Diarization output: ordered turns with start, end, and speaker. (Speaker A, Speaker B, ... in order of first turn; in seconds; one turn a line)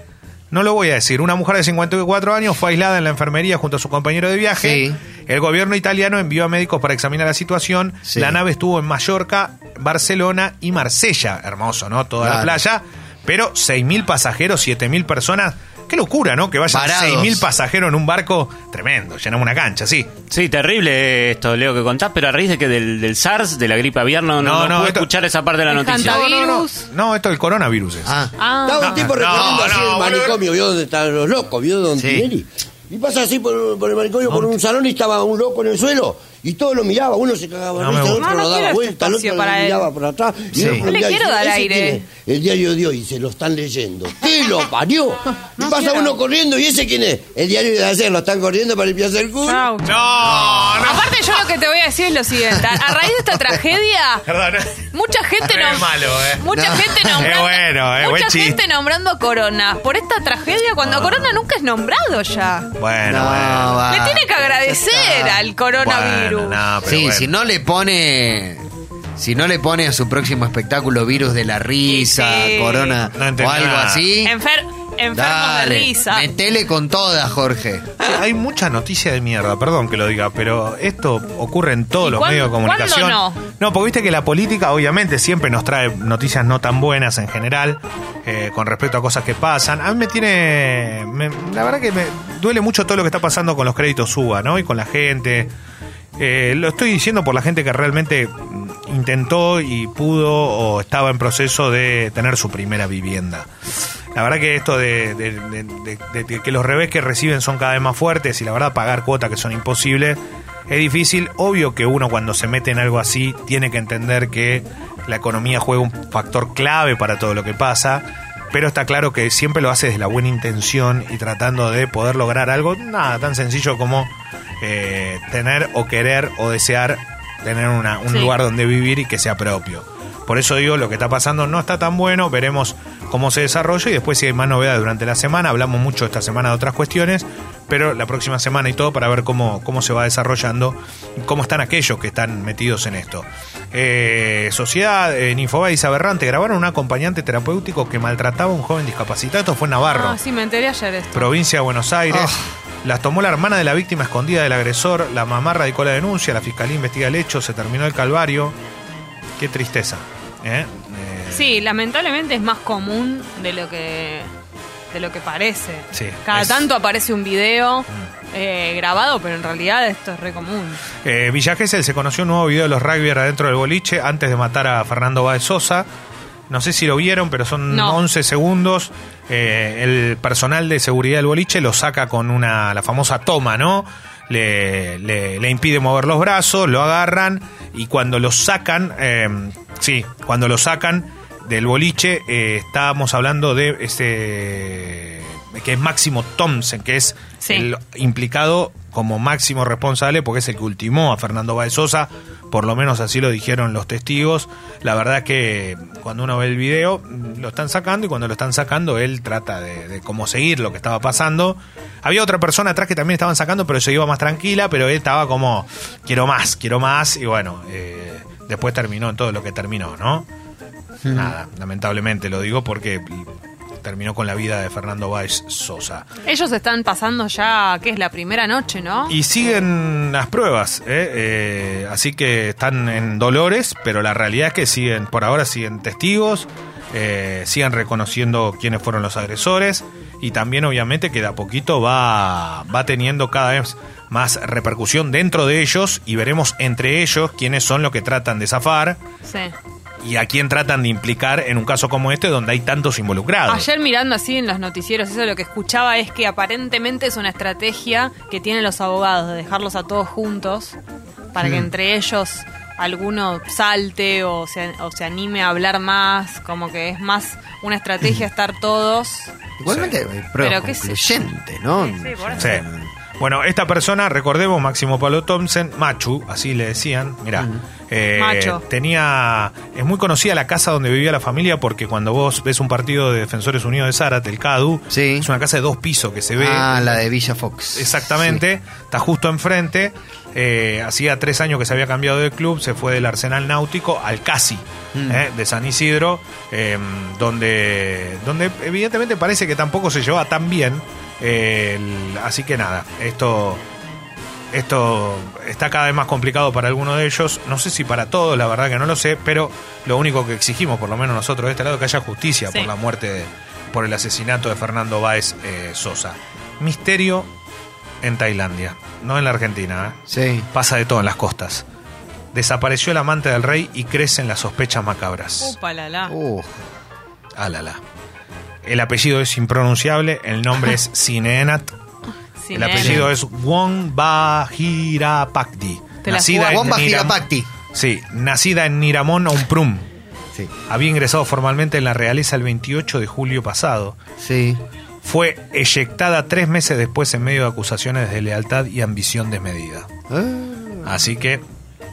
Speaker A: 0.5-20.1
Speaker B: 4.6-5.0
Speaker B: 8.1-8.4
Speaker B: 12.2-12.6
Speaker B: 16.7-17.5
Speaker C: 20.3-26.2
Speaker A: 24.4-25.1
Speaker D: 25.7-26.9
Speaker A: 25.9-28.2
Speaker B: 28.1-28.3
Speaker D: 28.4-29.1
Speaker E: 28.7-49.7
Speaker A: 28.8-30.4
Speaker B: 29.3-29.8
Speaker B: 32.0-32.3
Speaker A: 37.8-38.2
Speaker D: 38.2-39.9
Speaker B: 40.5-40.9
Speaker D: 40.8-42.0
Speaker D: 45.6-46.2
Speaker D: 49.4-49.9
Speaker A: 49.8-51.4
Speaker B: 50.2-50.9
Speaker D: 50.8-54.2
Speaker A: 54.3-54.8
Speaker D: 54.9-62.7
Speaker A: 55.4-58.6
Speaker B: 56.5-57.3
Speaker A: 60.8-61.4
Speaker A: 62.8-63.9
Speaker B: 63.0-65.4
Speaker D: 63.9-66.6
Speaker A: 65.8-67.3
Speaker B: 66.9-74.3
Speaker D: 71.9-73.0
Speaker A: 73.1-74.1
Speaker D: 74.2-76.3
Speaker B: 75.1-78.1
Speaker A: 78.0-95.5
Speaker D: 82.0-83.4
Speaker A: 96.2-103.5
Speaker A: 104.1-150.2
Speaker D: 128.1-128.3
Speaker D: 149.9-151.3
Speaker A: 151.1-158.6
Speaker B: 152.1-152.4
Speaker A: 159.4-161.6
Speaker D: 161.3-164.3
Speaker D: 164.9-170.8
Speaker A: 165.9-166.7
Speaker A: 171.0-175.9
Speaker A: 176.5-220.3
Speaker D: 177.7-178.0
Speaker B: 221.0-221.3
Speaker A: 221.1-223.3
Speaker A: 223.8-226.1
Speaker D: 226.3-229.1
Speaker A: 229.1-249.0
Speaker D: 249.2-249.5
Speaker A: 250.0-253.7
Speaker D: 253.5-260.8
Speaker D: 261.3-269.3
Speaker B: 261.4-261.7
Speaker B: 269.6-272.9
Speaker A: 269.7-269.9
Speaker D: 270.4-271.0
Speaker D: 271.8-272.4
Speaker A: 272.4-272.6
Speaker A: 273.2-287.0
Speaker B: 277.4-277.6
Speaker D: 278.2-278.6
Speaker B: 284.9-285.3
Speaker B: 286.4-288.4
Speaker A: 287.8-303.6
Speaker B: 294.9-295.2
Speaker A: 304.5-317.3
Speaker A: 318.0-320.0
Speaker B: 320.1-320.5
Speaker A: 320.5-321.6
Speaker A: 322.3-325.6
Speaker D: 325.4-326.1
Speaker B: 326.1-326.6
Speaker A: 327.4-327.8
Speaker A: 328.6-331.7
Speaker D: 332.4-333.0
Speaker A: 332.5-337.2
Speaker B: 332.8-333.1
Speaker D: 336.0-336.7
Speaker B: 336.4-337.5
Speaker A: 337.7-339.9
Speaker A: 340.7-344.0
Speaker B: 344.2-344.6
Speaker A: 345.0-349.9
Speaker B: 350.1-350.9
Speaker A: 350.9-351.4